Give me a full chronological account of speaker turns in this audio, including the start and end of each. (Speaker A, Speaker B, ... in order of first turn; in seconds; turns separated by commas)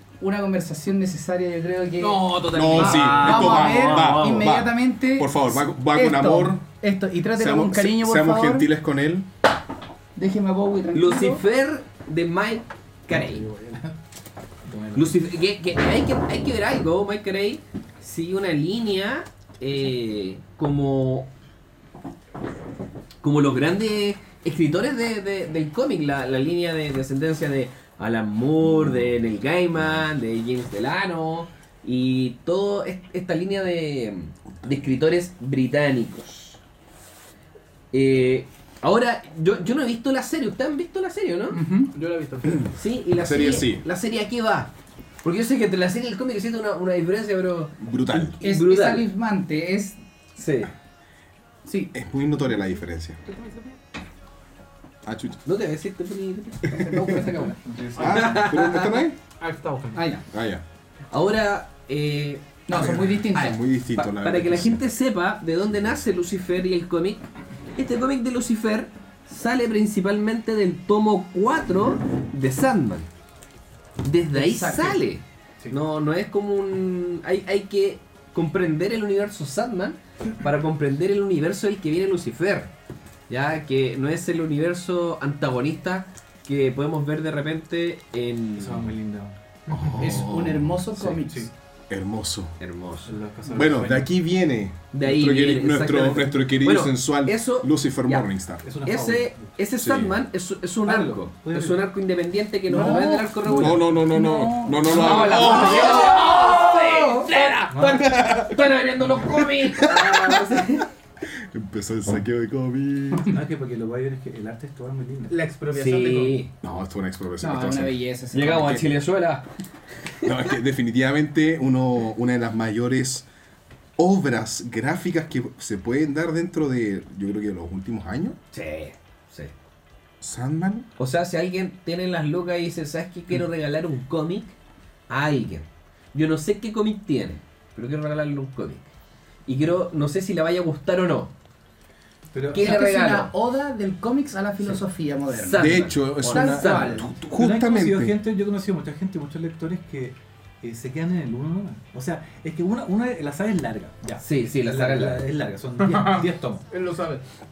Speaker A: 0.2-8.7, Speaker B: 2.0-4.0, Speaker C: 2.4-6.6, Speaker D: 3.0-4.3, Speaker C: 7.3-9.3, Speaker A: 10.2-11.4, Speaker D: 10.9-13.5, Speaker E: 13.1-13.9, Speaker E: 14.7-15.2, Speaker D: 14.9-21.3, Speaker D: 23.2-36.6, Speaker C: 28.8-29.0, Speaker D: 37.9-41.6, Speaker A: 41.5-41.9, Speaker B: 41.9-42.7, Speaker C: 42.6-43.8, Speaker D: 42.8-44.7, Speaker D: 45.2-49.1, Speaker C: 47.8-48.4, Speaker A: 48.4-50.0, Speaker D: 50.4-50.7, Speaker A: 51.6-51.9, Speaker C: 51.9-53.2, Speaker B: 53.3-53.8, Speaker C: 55.0-55.4, Speaker D: 55.5-59.1, Speaker A: 56.8-57.5, Speaker C: 56.8-57.3, Speaker E: 57.6-58.4, Speaker C: 58.0-59.2, Speaker B: 59.4-60.0, Speaker A: 60.0-60.2, Speaker C: 60.3-60.6, Speaker D: 61.1-62.4, Speaker A: 62.7-63.6, Speaker C: 62.7-64.8, Speaker D: 63.4-67.2, Speaker D: 67.8-73.1, Speaker D: 74.0-82.7, Speaker A: 74.3-75.0, Speaker D: 83.3-88.9, Speaker E: 88.6-90.2, Speaker C: 89.7-90.5, Speaker A: 90.0-91.5, Speaker E: 91.0-91.5, Speaker C: 91.9-92.5, Speaker D: 92.6-93.1, Speaker E: 93.1-94.1, Speaker C: 93.5-98.6, Speaker D: 94.9-98.3, Speaker E: 98.6-99.5, Speaker D: 98.8-103.8, Speaker C: 99.8-100.2, Speaker E: 100.8-101.8, Speaker A: 102.7-107.3, Speaker C: 103.5-106.1, Speaker D: 104.9-110.9, Speaker E: 107.7-108.1, Speaker C: 108.0-108.6, Speaker C: 109.7-110.4, Speaker C: 111.3-113.4, Speaker E: 113.3-115.4, Speaker B: 115.3-116.4, Speaker D: 115.7-116.5, Speaker C: 116.6-118.8, Speaker A: 117.4-118.8, Speaker D: 118.3-119.5, Speaker D: 120.2-120.5, Speaker C: 120.2-123.3, Speaker C: 124.0-128.4, Speaker D: 128.5-129.5, Speaker C: 130.2-130.9, Speaker D: 131.0-134.6, Speaker D: 135.1-138.9, Speaker D: 139.5-141.3, Speaker E: 142.3-142.8, Speaker D: 142.5-143.3, Speaker A: 142.5-147.2, Speaker D: 145.3-147.1, Speaker C: 145.6-148.1, Speaker E: 147.3-156.7, Speaker D: 154.2-155.3, Speaker B: 155.8-157.2